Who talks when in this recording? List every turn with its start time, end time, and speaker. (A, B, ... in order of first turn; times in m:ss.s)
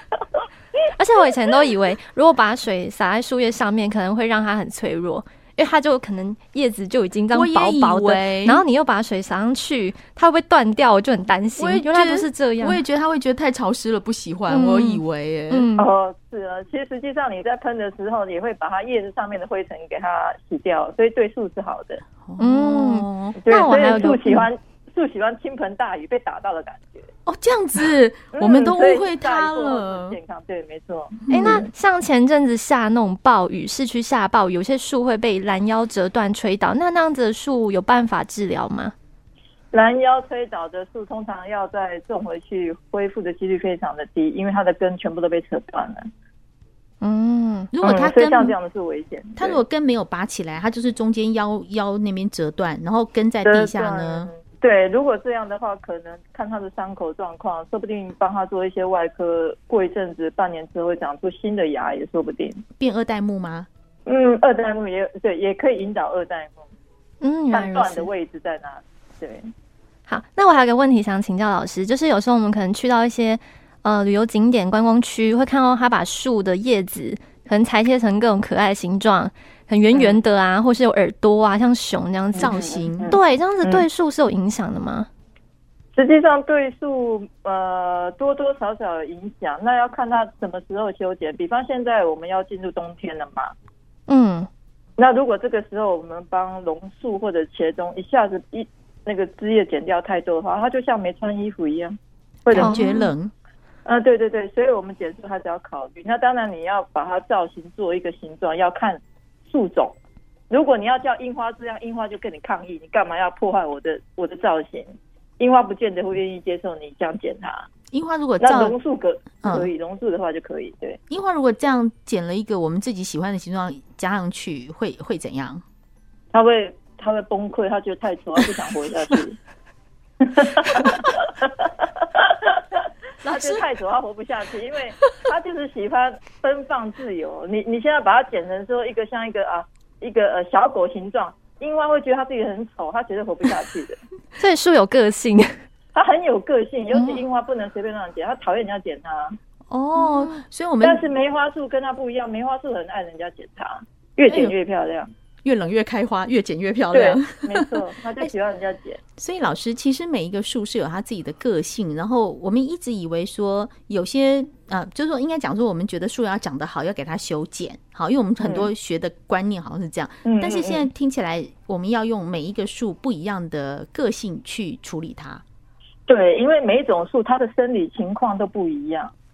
0:01.0-0:12.8 A
0:07.3-0:08.6 B
0:11.6-0:15.7 B
0:14.5-0:15.9 A
0:15.8-0:22.0 C
0:22.2-0:23.4 B
0:22.4-0:24.5 A
0:23.4-0:27.1 C
0:27.2-0:30.2 B
0:28.3-0:31.7 C
0:31.3-0:31.6 B
0:31.3-0:38.9 A
0:39.7-0:46.1 C
0:47.0-0:47.7 A
0:47.7-0:48.5 B
0:47.8-0:49.6 C
0:49.4-0:54.3 B
0:53.4-1:02.6 C
1:02.8-1:03.7 B
1:04.0-1:06.7 C
1:07.2-1:08.1 A
1:07.5-1:09.5 C
1:10.1-1:25.1 A
1:22.4-1:23.2 B
1:22.4-1:23.8 C
1:26.0-1:33.5 C
1:34.1-1:34.5 A
1:35.0-1:42.8 C
1:42.5-1:43.3 B
1:42.5-1:43.1 A
1:43.8-1:50.0 C
1:50.5-1:57.7 C
1:57.9-1:58.8 B
1:58.4-2:01.0 C
1:59.4-1:59.7 B
2:01.1-2:05.6 B
2:06.3-2:09.4 C
2:10.2-2:24.0 C
2:13.2-2:13.6 B
2:24.4-2:25.5 A
2:25.9-2:29.4 C
2:26.9-2:27.2 A
2:29.7-2:31.0 B
2:30.0-2:30.4 A
2:30.8-2:35.1 C
2:34.3-2:34.5 B
2:35.4-2:37.7 B
2:36.9-2:39.0 C
2:39.2-2:55.4 B
2:48.4-2:48.7 C
2:50.2-2:50.9 C
2:56.1-2:59.1 C